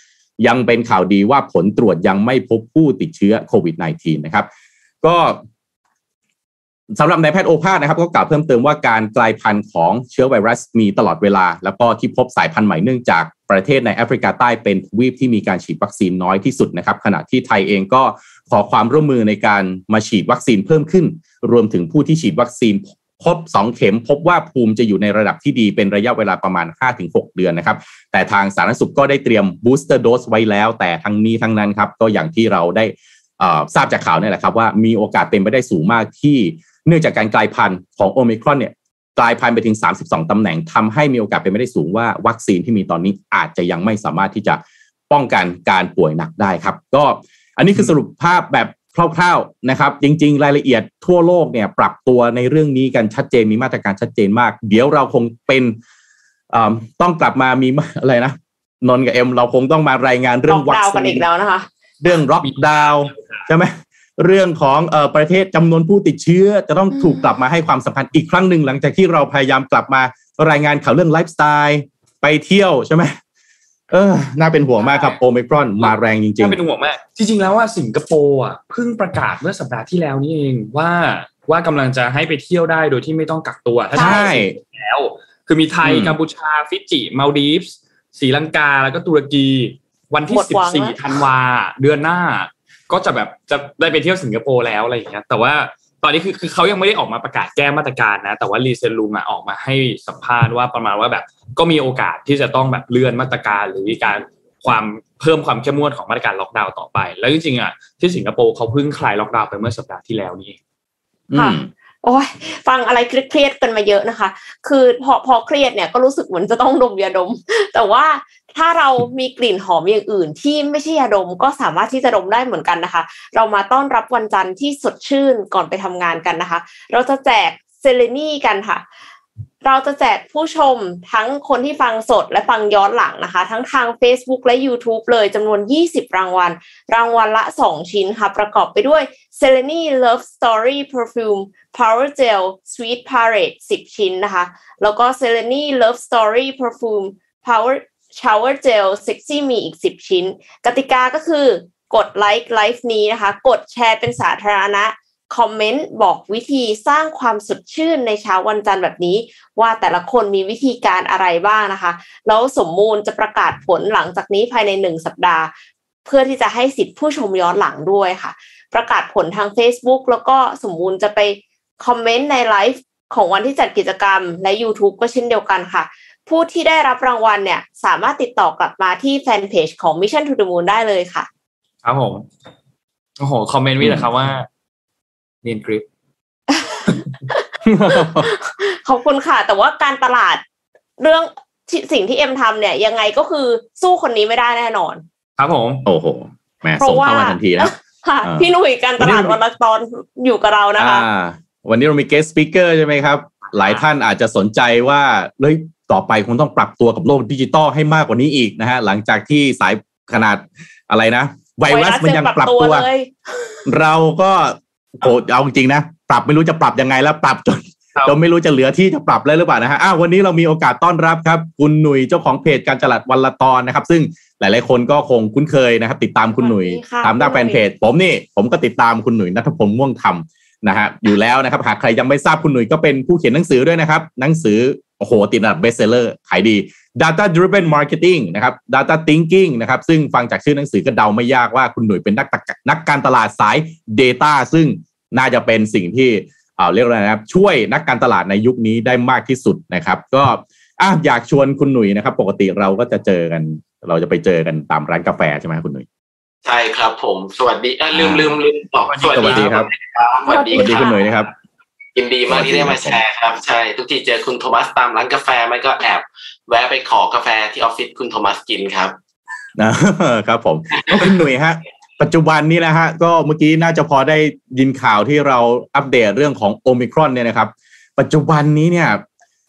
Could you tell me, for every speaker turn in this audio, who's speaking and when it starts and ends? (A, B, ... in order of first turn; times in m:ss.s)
0:00.4-0:04.5 A
0:05.0-0:05.4 A
0:06.9-0:55.8 A
0:56.5-1:01.2 A
1:00.5-1:01.7 B
1:02.0-1:13.1 A
1:13.9-1:16.6 A
1:15.8-1:50.6 C
1:23.9-1:24.3 B
1:24.0-1:24.6 A
1:25.8-1:26.1 A
1:30.3-1:31.0 B
1:51.3-1:51.7 A
1:51.3-2:08.8 B
2:09.6-2:45.5 B
2:46.0-3:01.3 B
3:01.8-3:02.2 C
3:03.2-3:04.5 C
3:03.8-3:04.1 A
3:05.4-3:05.8 C
3:06.5-3:07.4 B
3:07.6-3:08.3 A
3:07.9-3:10.4 B
3:11.0-3:15.0 B
3:15.4-3:15.9 C
3:15.8-3:18.5 A
3:16.8-3:21.0 B
3:19.0-3:19.4 A
3:20.8-3:32.8 A
3:31.7-3:33.6 B
3:33.6-4:15.8 A
3:46.4-3:47.6 B
4:16.4-4:20.9 D
4:17.9-4:18.3 A
4:18.9-4:19.6 C
4:19.1-4:19.7 A
4:20.3-4:21.0 B
4:20.6-4:21.3 A
4:21.9-4:29.0 D
4:22.3-4:23.0 A
4:29.6-4:39.0 A